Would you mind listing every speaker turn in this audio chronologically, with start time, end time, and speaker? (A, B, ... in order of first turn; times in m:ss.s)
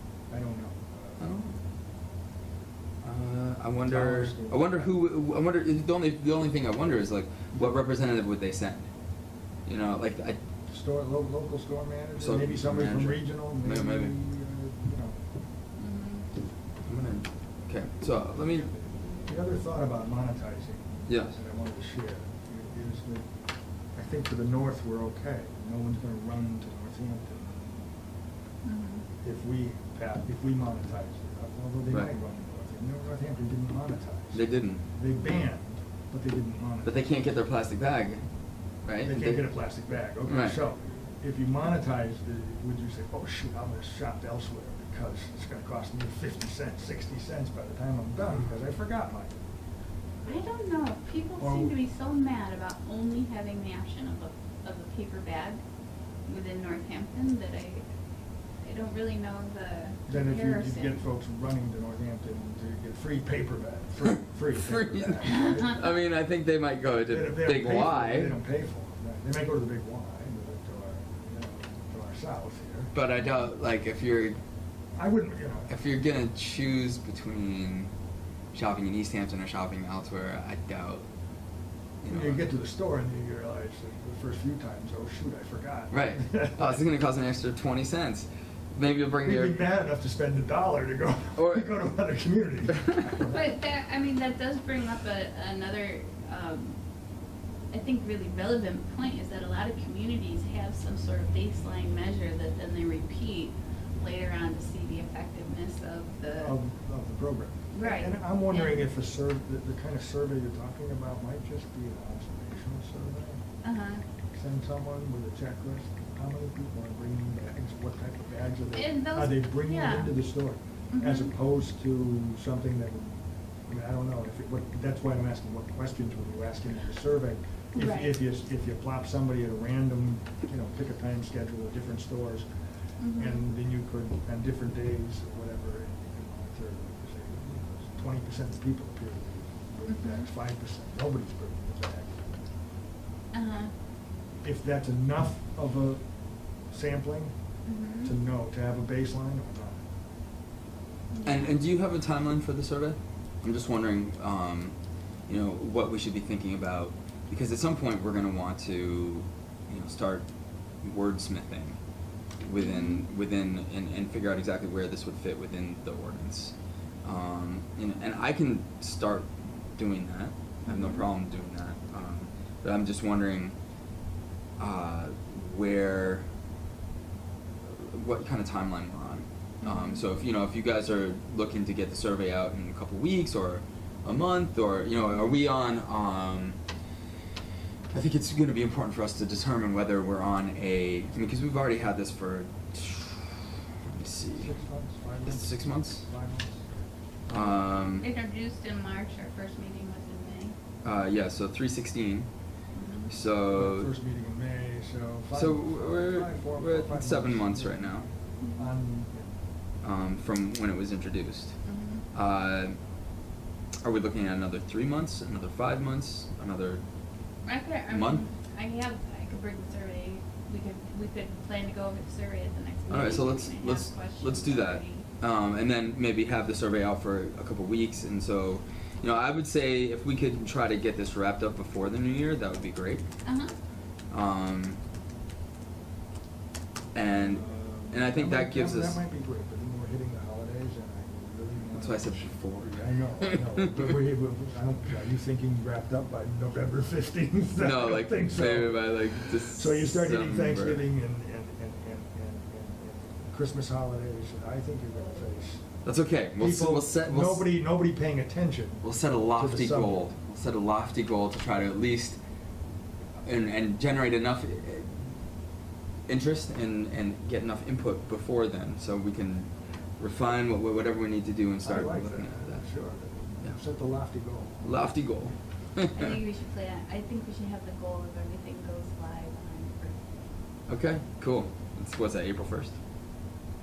0:00.3-0:01.3 A
0:01.2-0:01.5 B
0:03.0-0:08.9 B
0:03.8-0:04.9 A
0:07.5-0:07.8 A
0:09.6-0:10.4 B
0:10.7-0:15.2 A
0:12.2-0:14.1 B
0:15.8-0:16.2 C
0:16.8-0:18.7 B
0:19.2-0:23.3 A
0:21.1-0:21.3 B
0:23.9-0:27.6 A
0:28.6-0:29.0 C
0:29.2-0:37.2 A
0:34.3-0:34.8 B
0:36.8-0:38.2 B
0:38.8-0:39.5 B
0:39.0-0:49.4 A
0:40.2-0:40.6 B
0:50.2-0:55.6 C
0:51.4-0:51.7 A
0:56.2-0:57.8 C
0:58.6-1:01.0 C
1:00.1-1:05.8 A
1:04.6-1:08.4 B
1:07.1-1:12.9 A
1:12.9-1:14.4 B
1:14.9-1:15.7 A
1:15.7-1:17.9 B
1:18.5-1:21.0 B
1:22.0-1:22.4 B
1:22.1-1:26.9 A
1:25.9-1:29.6 B
1:29.2-1:33.5 A
1:31.4-1:31.8 B
1:33.2-1:36.8 C
1:37.7-1:46.5 C
1:46.4-1:53.4 A
1:47.7-1:48.8 C
1:53.6-1:54.0 C
1:54.3-2:12.5 A
1:58.7-2:00.2 C
2:00.9-2:01.3 C
2:07.7-2:08.2 C
2:13.0-2:13.5 C
2:13.1-2:22.4 A
2:19.9-2:20.3 C
2:23.3-2:23.7 C
2:24.4-2:26.0 A
2:26.7-2:27.3 A
2:27.6-2:28.1 C
2:28.0-2:29.8 A
2:31.1-2:31.5 C
2:31.2-2:34.7 B
2:35.3-2:40.2 B
2:40.8-2:41.8 B
2:42.4-2:53.5 B
2:42.6-2:43.1 C
2:50.6-2:51.1 C
2:54.6-2:56.2 B
2:57.6-3:06.6 B
2:59.6-3:00.0 C
3:07.9-3:14.5 B
3:14.3-3:16.7 A
3:15.2-3:16.0 B
3:17.3-3:18.0 B
3:18.0-3:20.5 C
3:20.8-3:22.3 B
3:22.7-3:23.1 C
3:23.1-3:23.9 B
3:23.5-3:29.4 A
3:25.3-3:28.0 B
3:28.4-3:28.7 C
3:29.8-3:31.6 B
3:31.6-3:32.0 C
3:32.1-3:32.8 B
3:33.8-3:36.8 B
3:37.4-3:45.0 C
3:37.9-3:38.2 B
3:42.9-3:53.0 B
3:53.2-3:53.5 C
3:54.1-3:54.8 B
3:56.9-3:59.0 B
3:57.2-4:15.6 A
4:01.8-4:03.6 B
4:07.6-4:10.8 B
4:15.8-4:17.6 B
4:16.4-4:20.1 A
4:18.8-4:22.2 B
4:23.2-4:25.0 B
4:26.1-4:32.6 B
4:31.6-4:34.8 A
4:34.6-4:36.0 B
4:35.9-4:40.0 C
4:40.7-4:42.8 B